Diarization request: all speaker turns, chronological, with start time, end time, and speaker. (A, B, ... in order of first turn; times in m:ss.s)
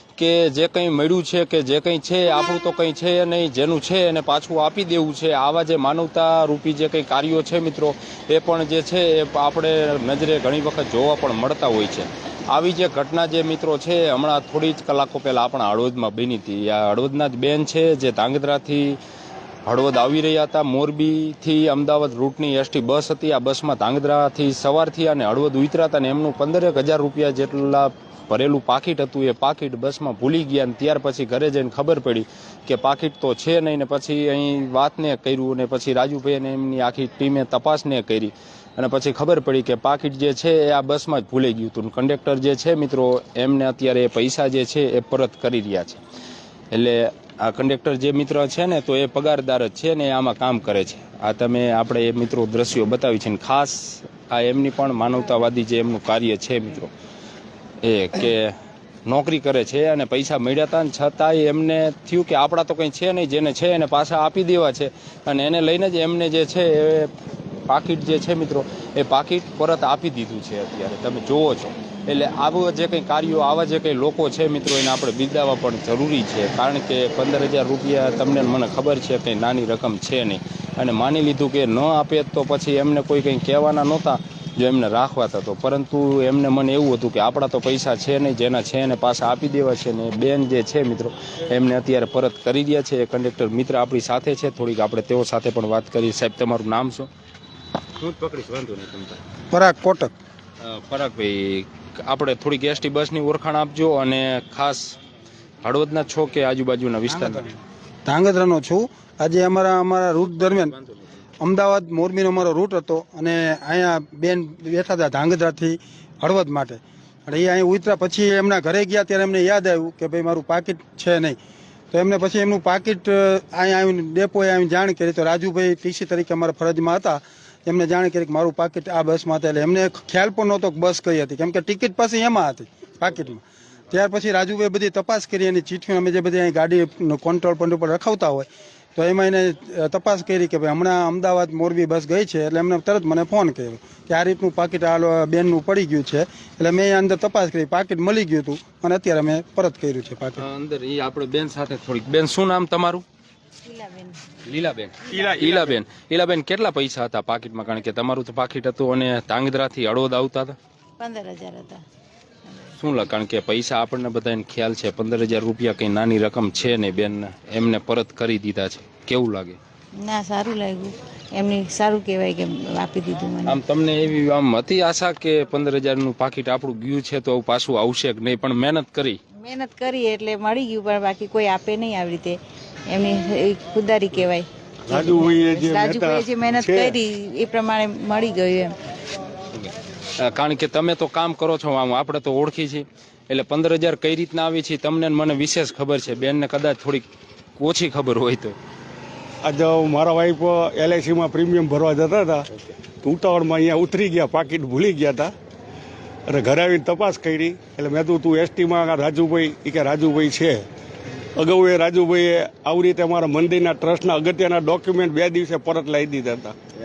0:00.2-0:19.0 A
0:19.6-0:46.0 A
0:46.7-0:56.9 A
0:57.8-0:58.5 A
0:59.0-1:07.1 A
1:07.7-1:37.1 A
1:38.0-1:39.2 A
1:39.5-1:40.1 B
1:40.6-1:45.0 A
1:45.6-1:47.4 A
1:47.1-1:47.5 B
1:48.0-1:50.7 B
1:51.4-2:01.4 B
2:01.9-2:30.4 B
2:30.4-2:33.0 A
2:33.6-2:34.2 C
2:34.4-2:40.6 A
2:35.1-2:35.8 D
2:41.0-2:41.8 C
2:42.8-2:49.6 A
2:50.0-2:53.6 C
2:53.4-2:59.2 A
2:59.4-3:08.8 C
3:04.9-3:07.0 D
3:09.5-3:17.0 A
3:17.6-3:18.6 A
3:19.4-3:22.5 D
3:23.0-3:25.3 D
3:26.3-3:30.6 D
3:31.3-3:36.6 D